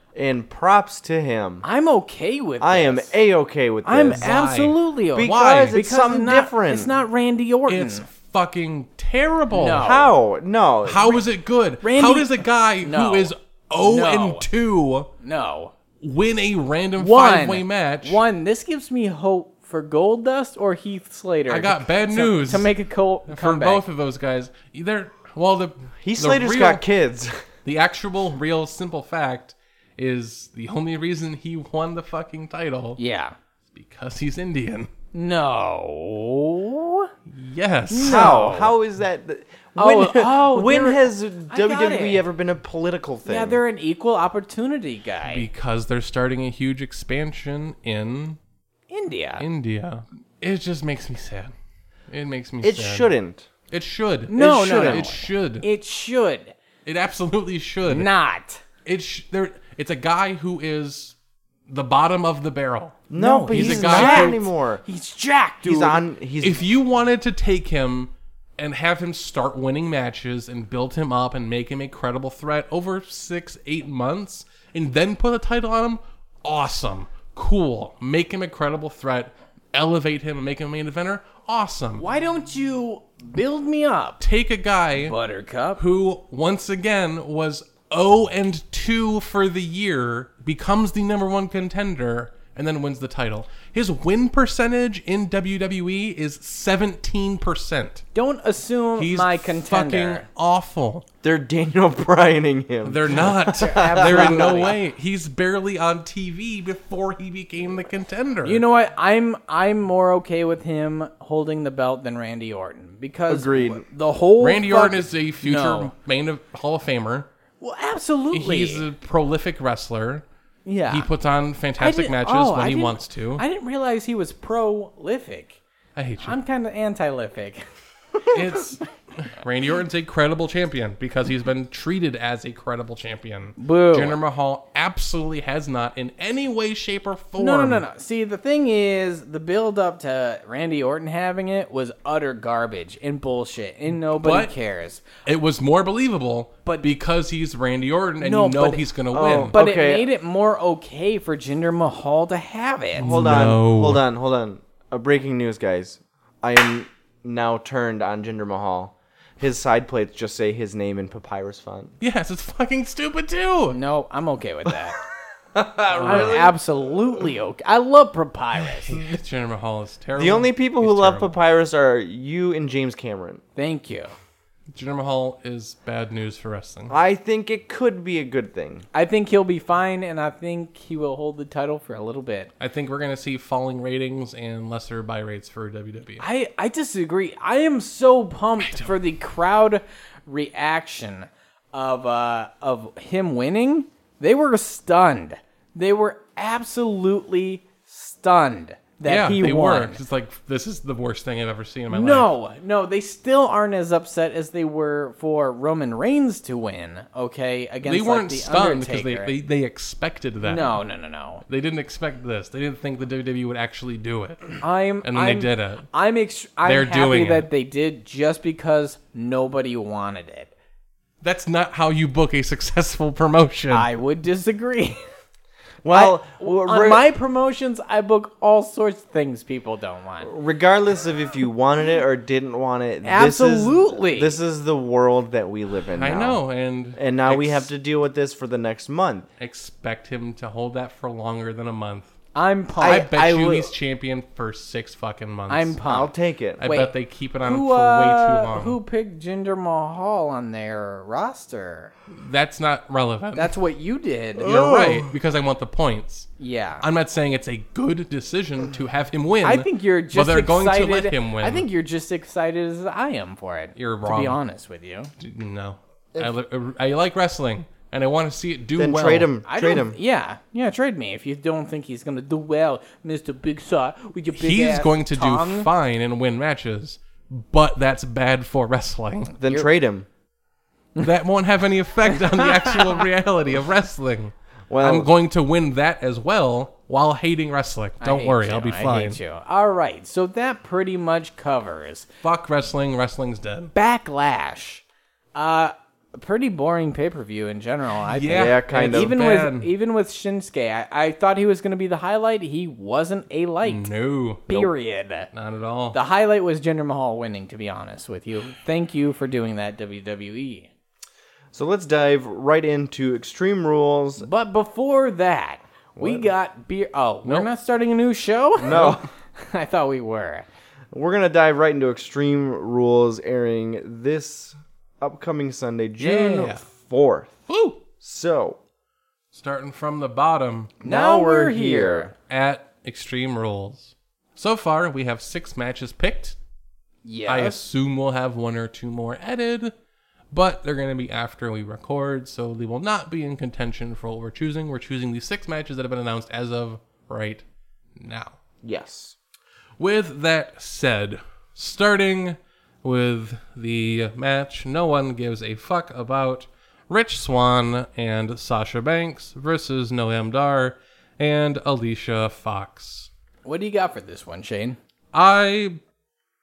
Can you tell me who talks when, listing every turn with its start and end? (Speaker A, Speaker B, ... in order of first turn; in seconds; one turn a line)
Speaker A: 0.1-1.6
Speaker B: 1.6-3.1
Speaker A: 2.6-4.3
Speaker B: 3.9-8.1
Speaker C: 4.1-5.8
Speaker A: 5.2-7.0
Speaker C: 7.7-9.9
Speaker B: 9.5-10.2
Speaker A: 9.8-11.2
Speaker C: 10.8-15.1
Speaker B: 11.8-14.5
Speaker B: 15.2-15.7
Speaker C: 16.0-18.2
Speaker B: 17.0-23.8
Speaker C: 21.5-22.7
Speaker C: 23.3-26.8
Speaker A: 26.0-27.4
Speaker C: 27.6-33.0
Speaker B: 33.0-33.4
Speaker C: 33.7-34.9
Speaker B: 35.1-37.1
Speaker C: 37.3-38.4
Speaker B: 37.9-38.7
Speaker A: 38.0-43.6
Speaker B: 39.8-42.2
Speaker B: 43.2-45.5
Speaker C: 45.2-48.4
Speaker B: 48.9-49.5
Speaker C: 49.4-51.5
Speaker C: 52.1-53.1
Speaker A: 52.6-53.5
Speaker C: 53.7-55.7
Speaker B: 54.3-56.5
Speaker A: 54.4-55.1
Speaker C: 56.9-58.1
Speaker B: 57.9-58.6
Speaker C: 58.9-61.1
Speaker C: 61.7-64.5
Speaker A: 63.1-64.8
Speaker B: 63.1-66.0
Speaker A: 65.6-66.6
Speaker C: 66.4-82.0
Speaker B: 82.0-84.2
Speaker C: 84.2-85.2
Speaker B: 85.0-85.8
Speaker C: 85.8-98.0
Speaker B: 98.2-100.3
Speaker C: 99.0-101.0
Speaker A: 101.2-104.8
Speaker C: 102.8-108.6
Speaker B: 103.5-104.8
Speaker B: 108.4-115.9
Speaker A: 113.3-113.8
Speaker C: 114.4-117.3
Speaker B: 117.6-118.9
Speaker C: 118.3-120.2
Speaker B: 120.7-121.1
Speaker C: 120.9-123.4
Speaker B: 121.8-125.6
Speaker C: 126.0-126.4
Speaker B: 126.2-127.7
Speaker C: 128.3-137.8
Speaker B: 133.6-134.2
Speaker B: 137.4-145.0
Speaker C: 144.1-144.5
Speaker C: 145.2-149.6
Speaker B: 148.2-148.9
Speaker A: 149.1-150.1
Speaker B: 149.5-153.1
Speaker C: 153.0-154.0
Speaker A: 153.0-161.9
Speaker C: 162.0-163.8
Speaker B: 163.7-165.0
Speaker A: 165.6-166.6
Speaker C: 165.9-166.5
Speaker B: 166.1-169.0
Speaker C: 168.9-171.3
Speaker A: 170.2-173.4
Speaker B: 173.6-174.1
Speaker C: 174.7-176.9
Speaker A: 176.9-178.8
Speaker B: 178.9-182.5
Speaker C: 182.6-186.2
Speaker B: 186.2-200.0
Speaker C: 188.6-189.0
Speaker C: 199.1-202.3
Speaker B: 201.9-209.3
Speaker C: 207.8-210.8
Speaker B: 210.4-211.4
Speaker C: 211.5-215.9
Speaker B: 214.6-220.5
Speaker C: 216.6-217.5
Speaker C: 221.2-223.9
Speaker B: 223.7-225.0
Speaker A: 225.8-227.1
Speaker B: 225.9-230.3
Speaker A: 230.2-236.4
Speaker B: 233.0-234.4
Speaker C: 235.9-237.7
Speaker A: 237.0-239.3
Speaker C: 239.4-242.2
Speaker B: 242.3-243.1
Speaker A: 242.8-243.7
Speaker C: 242.8-245.8
Speaker B: 245.5-251.9
Speaker A: 245.9-246.6
Speaker C: 246.6-248.8
Speaker C: 252.1-253.6
Speaker B: 253.3-254.5
Speaker C: 254.4-261.7
Speaker A: 254.4-255.1
Speaker B: 256.4-256.8
Speaker B: 259.4-265.1
Speaker C: 263.8-264.4
Speaker C: 265.2-269.3
Speaker A: 268.8-270.0
Speaker B: 269.4-275.7
Speaker C: 274.3-279.3
Speaker A: 279.4-280.1
Speaker B: 279.4-279.7
Speaker C: 281.0-289.2
Speaker B: 282.1-283.0
Speaker A: 284.7-285.1
Speaker B: 288.0-292.1
Speaker C: 292.2-293.7
Speaker B: 293.7-294.8
Speaker B: 295.4-303.9
Speaker C: 298.1-299.7
Speaker A: 298.3-299.1
Speaker C: 303.6-304.6
Speaker B: 304.5-305.3
Speaker C: 305.3-306.0
Speaker B: 305.9-310.7
Speaker A: 311.5-314.3
Speaker B: 314.2-320.5
Speaker A: 316.0-316.3
Speaker A: 318.6-319.1
Speaker C: 318.7-319.0
Speaker A: 320.9-327.4
Speaker C: 326.0-326.6
Speaker C: 327.5-327.8
Speaker A: 328.0-328.6
Speaker C: 329.3-330.7
Speaker A: 330.8-332.1
Speaker B: 330.8-332.1
Speaker C: 332.3-336.4
Speaker B: 337.1-337.6
Speaker C: 337.3-339.7
Speaker C: 340.3-347.4
Speaker C: 348.0-348.4
Speaker A: 348.6-349.2
Speaker C: 349.8-363.1
Speaker B: 363.4-364.8
Speaker C: 365.1-365.8